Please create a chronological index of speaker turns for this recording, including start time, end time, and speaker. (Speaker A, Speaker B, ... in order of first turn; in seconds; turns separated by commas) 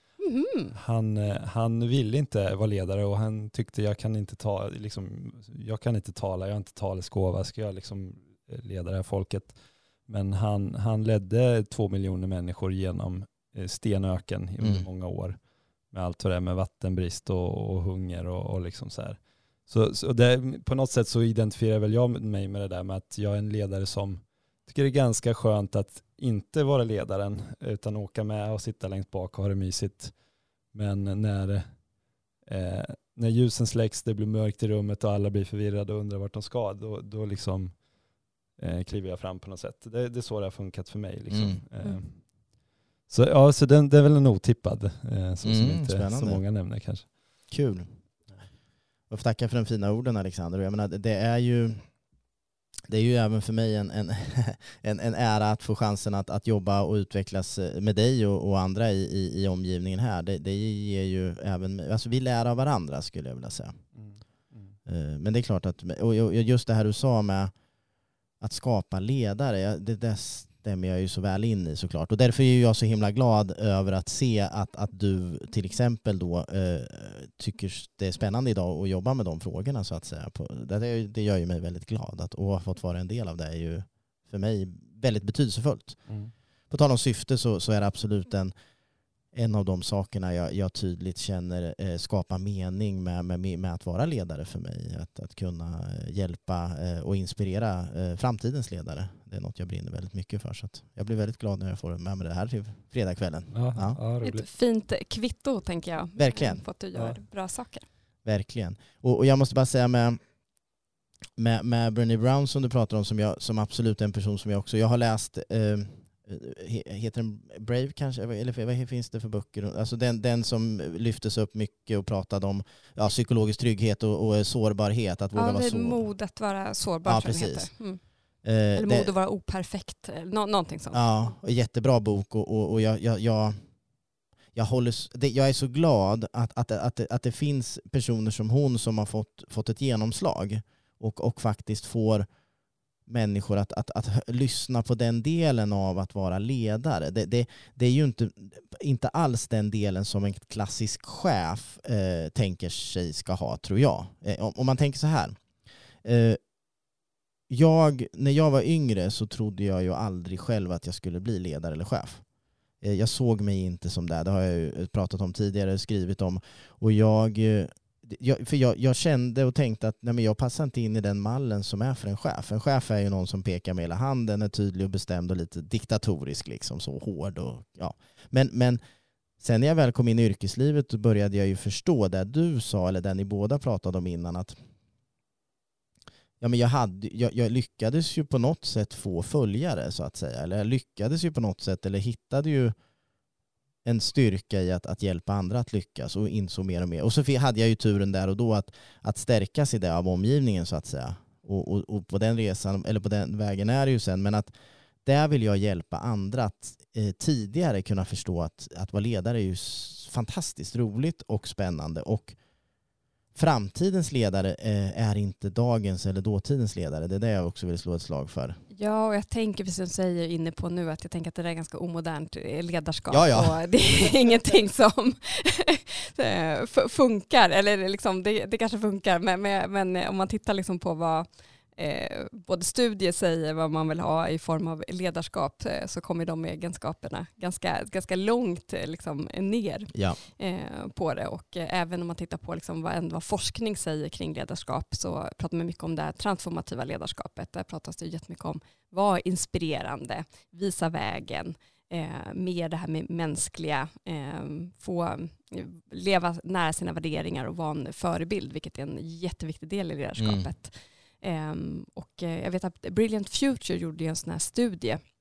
Speaker A: 0.2-0.7, Speaker B: 0.7-47.2, Speaker C: 41.3-41.6, Speaker C: 45.4-46.4, Speaker C: 47.5-48.0, Speaker C: 49.1-51.9, Speaker C: 52.9-63.8, Speaker B: 63.9-64.8, Speaker C: 64.9-67.5, Speaker C: 68.4-86.2, Speaker B: 86.1-86.3, Speaker C: 86.7-88.5, Speaker C: 89.3-104.0, Speaker B: 103.5-104.5, Speaker A: 104.2-107.9, Speaker C: 106.2-106.6, Speaker B: 106.9-107.2, Speaker C: 108.2-110.2, Speaker C: 111.4-126.0, Speaker A: 125.3-128.0, Speaker C: 127.0-127.7, Speaker C: 128.4-129.1, Speaker A: 128.8-131.1, Speaker C: 130.9-133.6, Speaker C: 134.5-142.3, Speaker C: 143.1-155.4, Speaker C: 156.0-156.4, Speaker C: 157.5-162.2, Speaker C: 162.8-178.8, Speaker C: 179.4-184.6, Speaker C: 186.4-192.7, Speaker C: 193.8-204.5, Speaker C: 205.1-212.4, Speaker C: 213.3-218.6, Speaker A: 218.7-265.0, Speaker C: 223.1-223.6, Speaker C: 260.2-260.5